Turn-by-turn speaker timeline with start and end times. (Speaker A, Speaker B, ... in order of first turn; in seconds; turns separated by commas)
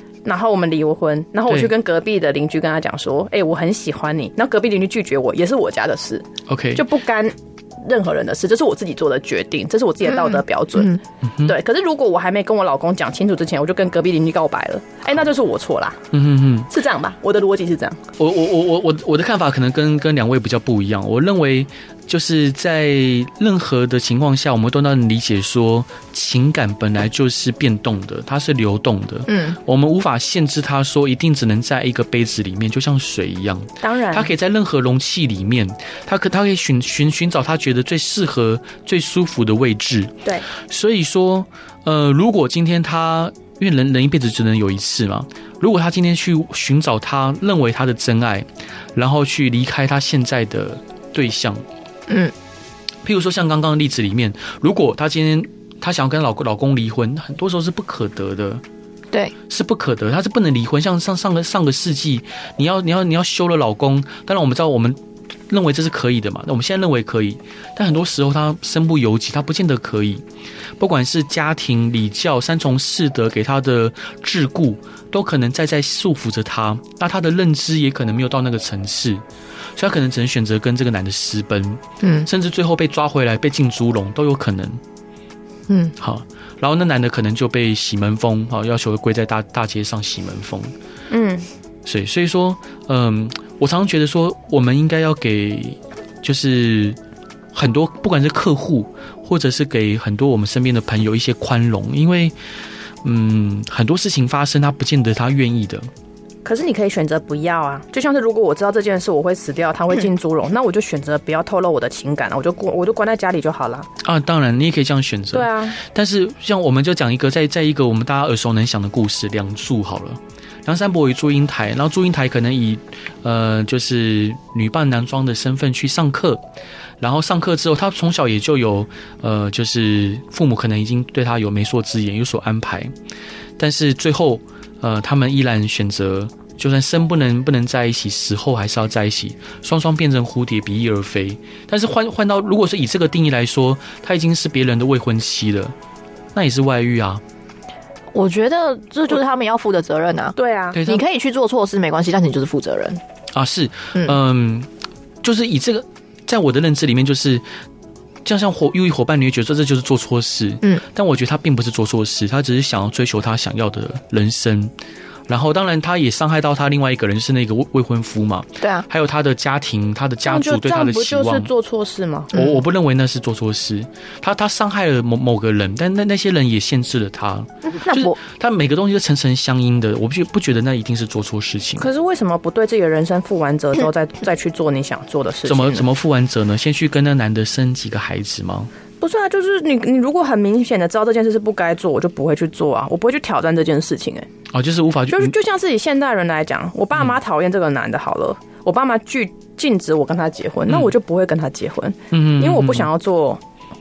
Speaker A: 0.2-16.0, Speaker B: 6.5-6.8, Speaker C: 10.0-11.0, Speaker B: 11.2-11.5, Speaker B: 16.1-16.7, Speaker A: 16.7-18.0, Speaker B: 18.2-51.6, Speaker C: 29.3-29.6, Speaker A: 33.8-34.3, Speaker C: 52.1-52.3, Speaker B: 53.0-58.6, Speaker B: 59.5-70.2, Speaker B: 70.8-79.2, Speaker B: 79.8-84.8, Speaker C: 82.0-82.3, Speaker C: 85.7-85.9, Speaker B: 86.0-90.7, Speaker A: 91.1-91.5, Speaker B: 91.8-97.0, Speaker B: 97.5-102.3, Speaker B: 103.0-105.9, Speaker A: 106.4-113.9, Speaker B: 114.0-126.4, Speaker A: 115.3-115.8, Speaker B: 127.0-132.9, Speaker B: 133.6-145.7, Speaker B: 146.3-147.2, Speaker C: 148.1-153.0, Speaker A: 150.3-150.8, Speaker B: 150.7-151.0, Speaker B: 153.3-154.7, Speaker B: 155.2-157.4, Speaker B: 158.2-164.7, Speaker B: 165.3-171.5, Speaker C: 168.6-168.8, Speaker A: 170.2-172.4, Speaker B: 172.3-181.9, Speaker C: 172.3-172.6, Speaker C: 177.8-178.2, Speaker A: 181.8-185.8, Speaker B: 185.4-188.7, Speaker A: 189.0-194.3, Speaker B: 194.5-195.3, Speaker A: 195.1-203.4, Speaker B: 202.1-202.9